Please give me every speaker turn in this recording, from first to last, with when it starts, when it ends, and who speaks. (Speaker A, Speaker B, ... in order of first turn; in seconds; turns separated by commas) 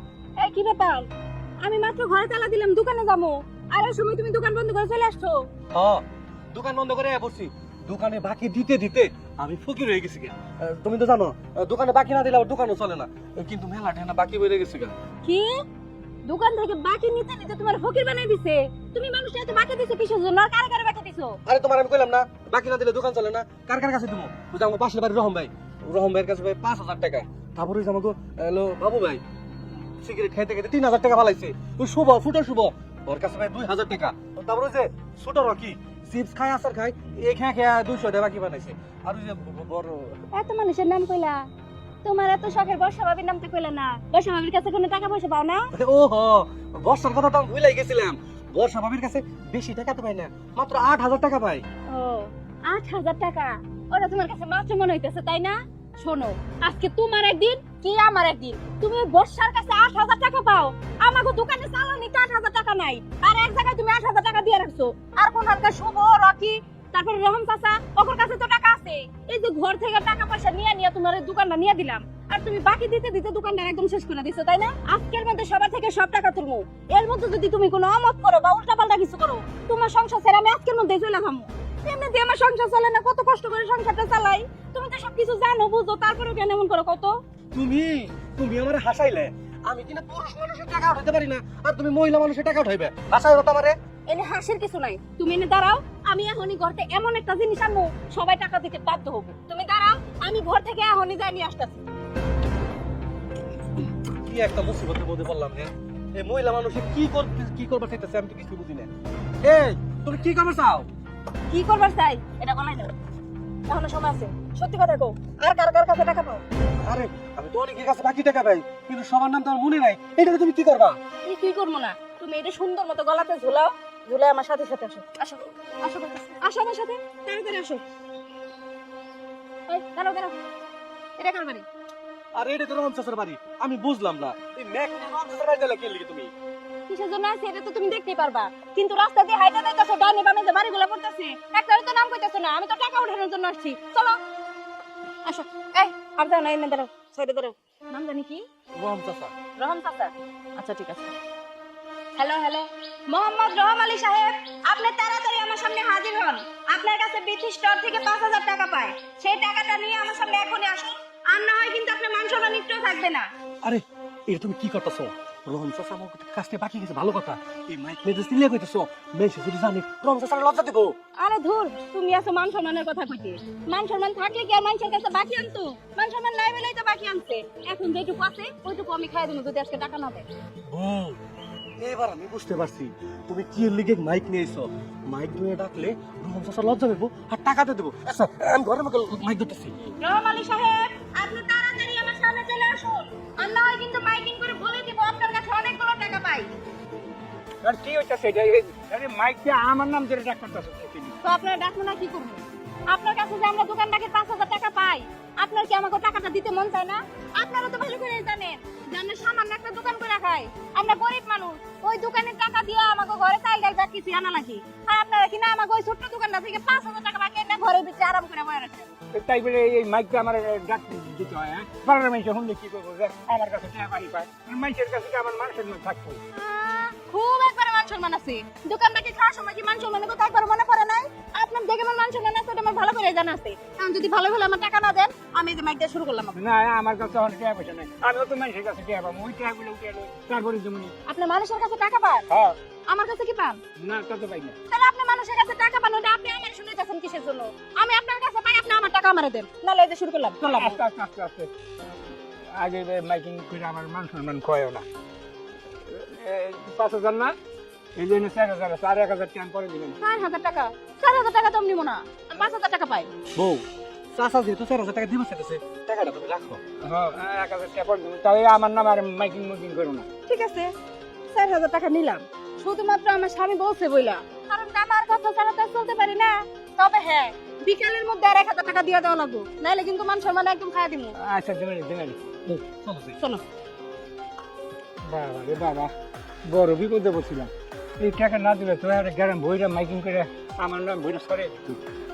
Speaker A: 0.4-1.1, Speaker A: 1.6-5.5, Speaker B: 5.7-6.0, Speaker B: 6.5-14.9, Speaker A: 15.2-15.6, Speaker A: 16.2-21.4, Speaker B: 21.4-29.2, Speaker B: 30.0-40.2, Speaker A: 40.3-41.5, Speaker A: 42.0-45.7, Speaker B: 45.7-51.6, Speaker A: 51.9-87.2, Speaker B: 87.5-93.8, Speaker A: 94.1-101.8, Speaker B: 104.2-108.9, Speaker B: 109.4-110.9, Speaker A: 111.5-112.9, Speaker A: 113.7-116.4, Speaker B: 116.8-121.0, Speaker A: 121.2-127.8, Speaker A: 129.7-130.3, Speaker A: 131.2-131.7, Speaker B: 132.3-136.3, Speaker A: 136.9-144.2, Speaker A: 145.2-148.4, Speaker B: 148.8-149.3, Speaker A: 149.6-151.1, Speaker A: 152.1-163.3, Speaker B: 163.6-170.9, Speaker A: 171.2-180.3, Speaker B: 180.7-181.2, Speaker B: 181.8-189.7, Speaker A: 190.0-196.5, Speaker C: 197.6-201.2, Speaker A: 201.2-218.9, Speaker C: 219.1-226.2, Speaker A: 226.3-236.4, Speaker C: 236.3-240.9, Speaker A: 241.0-242.3, Speaker C: 242.3-242.6, Speaker A: 242.9-243.6, Speaker C: 243.8-244.6, Speaker A: 244.7-250.8, Speaker C: 250.4-251.5, Speaker C: 252.5-254.8, Speaker C: 255.8-257.3, Speaker C: 257.9-260.0, Speaker A: 260.0-263.1, Speaker B: 263.3-266.6, Speaker C: 266.8-270.1, Speaker A: 270.2-270.7, Speaker A: 271.3-281.1, Speaker C: 281.2-282.6, Speaker B: 282.6-283.2, Speaker A: 283.2-283.4, Speaker C: 285.0-285.9, Speaker C: 286.5-291.8